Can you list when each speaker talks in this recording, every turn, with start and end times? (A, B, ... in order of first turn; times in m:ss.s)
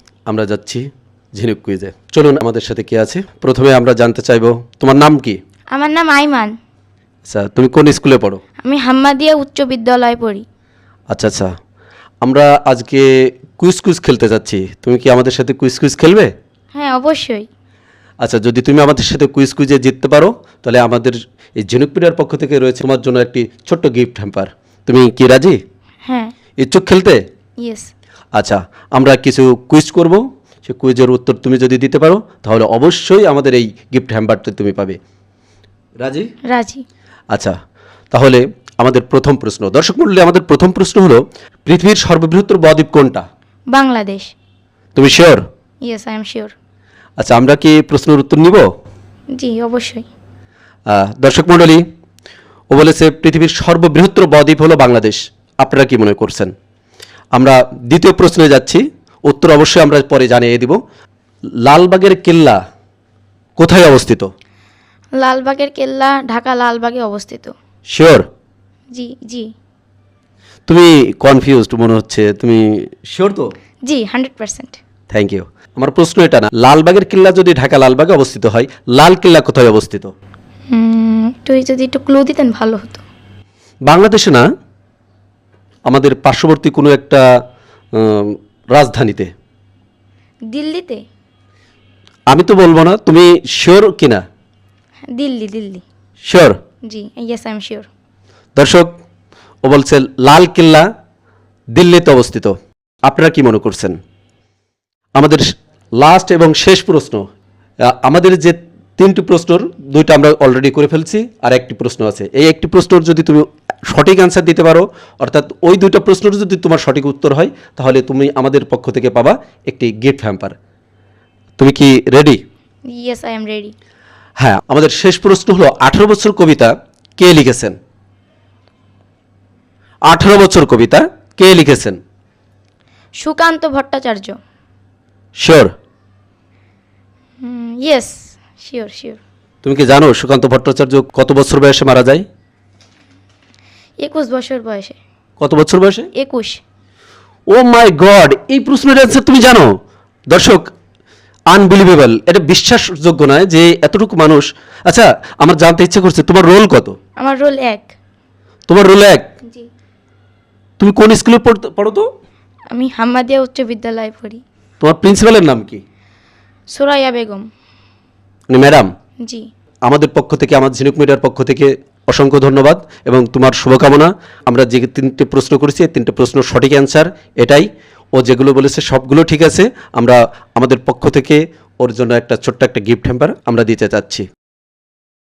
0:00.3-0:05.4 A
0:05.7-0:06.6 B
0:07.3-0:08.4 A
0:08.6-0:10.4 B
0:11.1-0:11.5 A
0:12.2-0:16.3 A
0:16.7-0:17.5 B
0:18.2-0:25.6 A
0:26.1-0:26.3 B
0:26.6-0:27.2 A
0:27.6-0:27.9 B
0:28.4-0:35.0 A
0:36.0-0:36.3 A
0:36.5-0:36.8 B
0:37.3-0:37.6 A
0:38.1-0:43.2 A
0:43.7-0:44.3 B
0:45.0-0:45.4 A
0:45.8-0:46.5 B
0:47.2-0:48.7 A
0:49.4-0:50.1 B
0:50.9-0:51.8 A
0:52.7-0:56.5 A
0:57.3-1:00.8 A
1:01.6-1:02.6 A
1:03.6-1:04.3 A
1:05.2-1:07.5 B
1:07.9-1:08.3 A
1:08.9-1:09.5 B
1:10.7-1:13.5 A
1:13.9-1:14.8 B
1:15.1-1:20.1 A
1:20.7-1:23.0 B
1:23.9-1:24.4 A
1:25.9-1:27.2 A
1:27.9-1:29.3 A
1:30.5-1:31.0 B
1:32.3-1:34.2 A
1:35.1-1:35.8 B
1:36.2-1:36.6 A
1:36.8-1:37.9 B
1:38.6-1:38.9 A
1:39.6-1:40.9 A
1:41.7-1:44.0 A
1:45.2-1:47.2 A
1:47.8-2:00.6 A
2:01.6-2:02.4 A
2:02.9-2:03.7 B
2:04.4-2:07.8 A
2:10.1-2:12.0 A
2:13.2-2:14.4 B
2:15.4-2:15.7 A
2:17.4-2:19.2 B
2:19.6-2:22.2 A
2:24.0-2:25.0 B
2:25.4-2:26.1 A
2:26.2-2:26.6 B
2:27.5-2:29.8 A
2:30.3-2:30.7 A
2:31.5-2:37.0 A
2:37.2-2:37.9 B
2:38.7-2:39.3 A
2:40.8-2:42.1 A
2:42.7-2:44.4 B
2:44.8-2:45.8 A
2:46.7-2:47.4 B
2:48.5-2:48.9 A
2:49.2-2:49.5 B
2:49.9-3:04.3 A